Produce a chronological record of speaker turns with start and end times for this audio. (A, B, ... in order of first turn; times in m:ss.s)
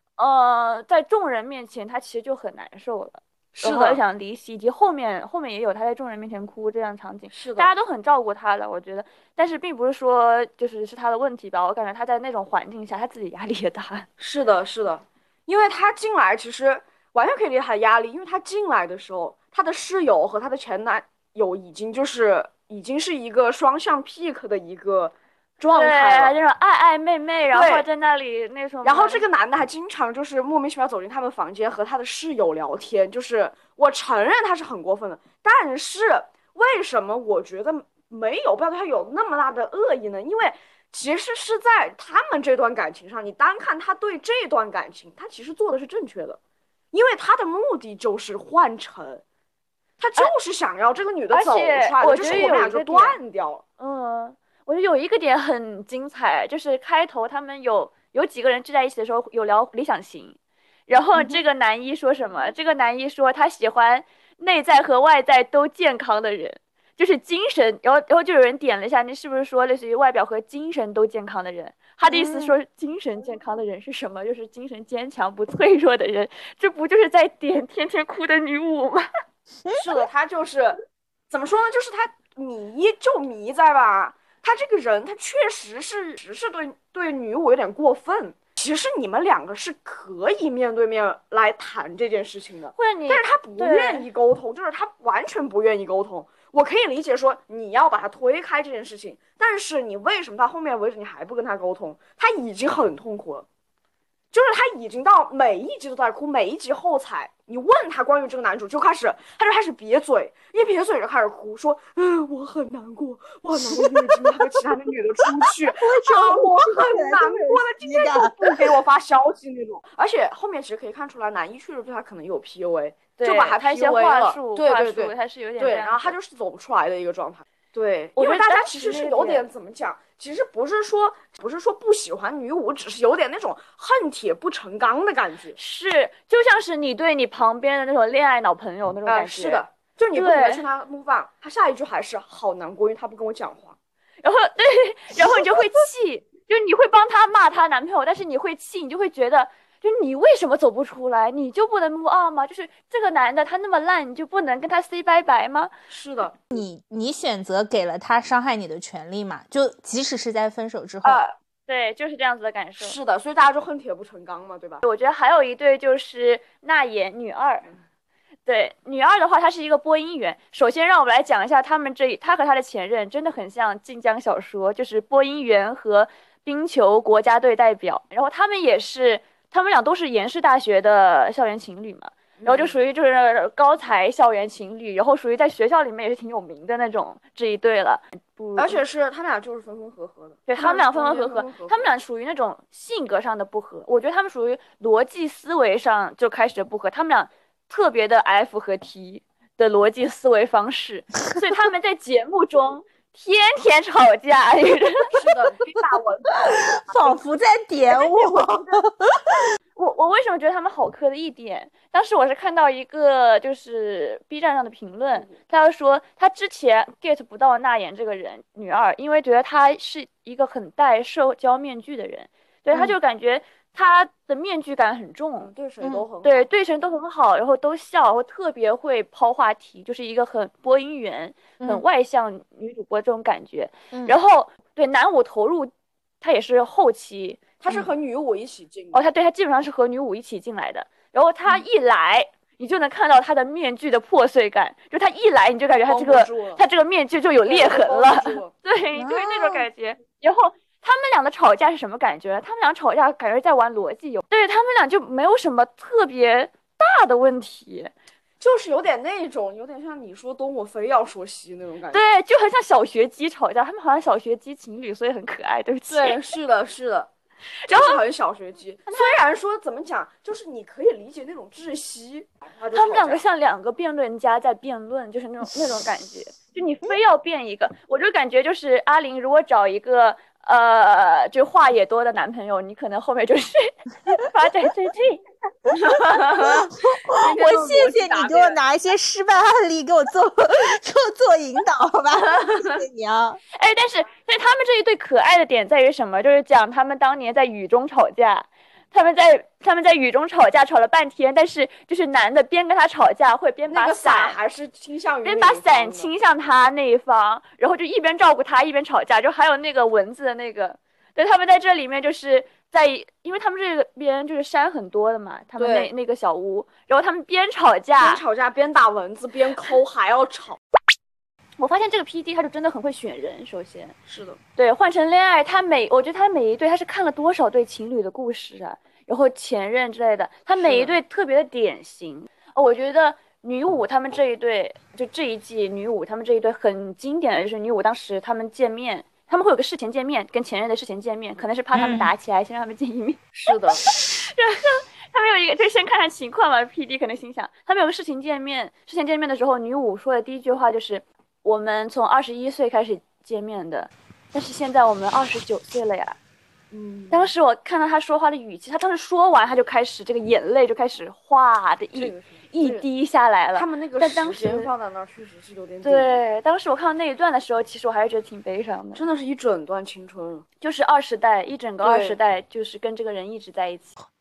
0:00.2-0:14.0 A
0:03.6-0:04.0 B
0:07.3-0:07.7 B
0:14.2-0:26.4 B
0:25.7-0:29.2 A
0:27.5-0:27.8 B
0:28.8-0:46.4 B
0:46.9-0:49.2 B
0:50.0-0:53.6 B
0:51.3-0:53.2 A
0:53.8-1:00.4 A
1:00.9-1:19.1 A
1:12.1-1:12.5 B
1:19.7-1:43.4 B
1:32.8-1:34.0 A
1:44.3-2:15.6 B
1:55.9-1:58.6 C
2:03.2-2:06.1 A
2:08.2-2:09.4 A
2:15.6-2:19.6 A
2:19.0-2:23.8 B
2:20.1-2:20.6 A
2:24.2-2:35.7 A
2:35.9-2:36.4 B
2:36.5-2:41.2 C
2:41.0-2:41.3 B
2:41.7-2:43.0 A
2:42.8-2:44.8 B
2:44.8-2:47.7 A
2:48.5-3:08.8 A
3:02.4-3:02.7 B
3:08.6-3:11.8 B
3:10.5-3:25.1 A
3:25.1-3:27.2 B
3:26.7-3:28.8 C
3:27.9-3:28.8 B
3:29.8-3:45.5 A
3:45.4-3:46.4 B
3:46.2-3:57.4 A
3:57.6-3:59.0 B
3:58.9-4:17.9 A
4:05.8-4:06.6 B
4:07.4-4:08.5 B
4:09.0-4:09.6 C
4:18.4-4:22.1 B
4:21.9-4:26.2 A
4:25.9-4:27.1 B
4:27.6-4:28.0 A
4:27.7-4:33.2 B
4:32.7-4:46.4 A
4:45.8-4:48.6 B
4:46.7-4:53.4 C
4:52.2-4:52.8 B
4:53.5-5:04.4 A
5:03.7-5:06.1 B
5:05.2-5:18.2 A
5:15.6-5:15.9 B
5:18.0-5:20.6 B
5:21.6-5:23.9 A
5:24.1-5:24.4 B
5:24.6-5:56.2 A
5:30.6-5:31.0 B
5:41.7-5:42.1 C
5:43.4-5:43.8 B
5:56.7-5:57.3 B
5:57.1-6:04.7 A
6:02.0-6:02.8 B
6:03.5-6:06.2 B
6:05.8-6:09.0 A
6:08.9-6:10.4 B
6:10.6-6:13.9 A
6:11.8-6:12.2 B